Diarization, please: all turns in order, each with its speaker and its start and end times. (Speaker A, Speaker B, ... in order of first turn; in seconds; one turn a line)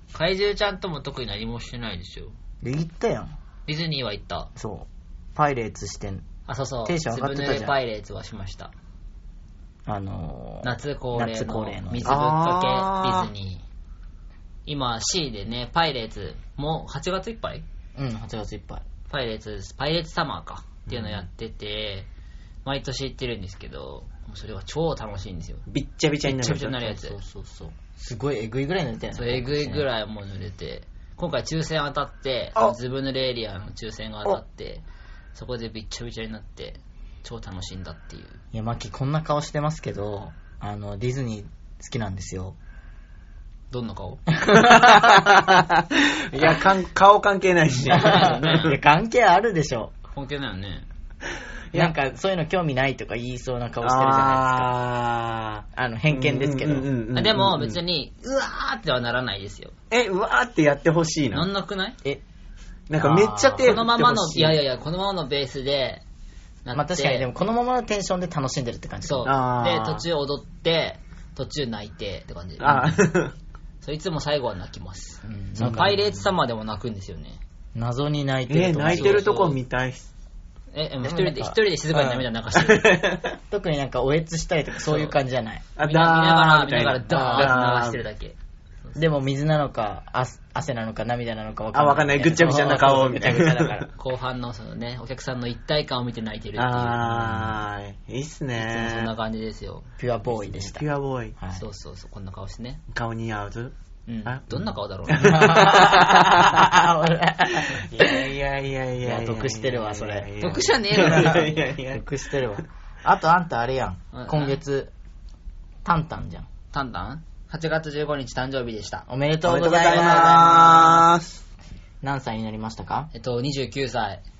Speaker A: 0.1-2.3
Speaker B: 2.6-3.3
Speaker A: 3.7-4.5
Speaker B: 4.6-6.3
Speaker A: 6.5-8.7
Speaker B: 6.8-7.8
Speaker B: 9.9-12.2
Speaker A: 10.6-13.6
Speaker C: 12.1-13.3
Speaker A: 14.7-17.6
Speaker B: 17.9-18.8
Speaker A: 19.1-22.1
Speaker C: 20.9-21.3
Speaker A: 22.6-25.6
Speaker C: 25.7-27.0
Speaker A: 26.2-27.2
Speaker B: 27.0-29.8
Speaker A: 29.1-34.8
Speaker A: 35.4-38.4
Speaker B: 38.5-42.6
Speaker A: 43.7-44.2
Speaker B: 44.4-45.4
Speaker C: 44.5-48.8
Speaker B: 47.9-49.9
Speaker A: 47.9-48.7
Speaker A: 50.1-50.9
Speaker B: 51.7-54.8
Speaker C: 53.8-57.8
Speaker B: 55.7-56.9
Speaker A: 57.1-59.7
Speaker C: 59.9-61.5
Speaker A: 61.3-62.0
Speaker C: 62.9-64.6
Speaker B: 63.0-63.8
Speaker A: 63.6-66.0
Speaker A: 66.7-67.3
Speaker B: 66.7-69.3
Speaker A: 69.0-73.1
Speaker C: 69.3-70.0
Speaker C: 72.6-73.3
Speaker A: 73.8-77.4
Speaker B: 75.2-76.0
Speaker B: 77.8-79.3
Speaker C: 78.5-80.1
Speaker A: 79.0-79.6
Speaker A: 80.7-83.1
Speaker B: 81.0-82.2
Speaker C: 82.6-83.4
Speaker B: 83.5-85.7
Speaker A: 84.9-85.1
Speaker C: 85.8-88.0
Speaker A: 85.8-89.0
Speaker B: 87.1-87.6
Speaker B: 89.0-93.9
Speaker C: 91.7-93.9
Speaker A: 94.0-97.5
Speaker C: 96.6-99.1
Speaker B: 97.1-97.6
Speaker A: 98.6-99.9
Speaker B: 100.0-100.9
Speaker C: 100.3-101.4
Speaker B: 101.4-101.6
Speaker A: 101.5-102.8
Speaker C: 102.9-103.7
Speaker A: 104.1-105.6
Speaker C: 104.3-106.7
Speaker B: 105.2-108.3
Speaker C: 107.6-112.0
Speaker B: 109.0-110.3
Speaker A: 110.4-111.6
Speaker B: 110.9-114.9
Speaker A: 114.1-114.6
Speaker B: 115.8-116.5
Speaker A: 116.7-119.0
Speaker B: 119.1-121.0
Speaker C: 119.4-121.4
Speaker A: 119.8-121.0
Speaker B: 122.0-123.1
Speaker A: 123.1-124.2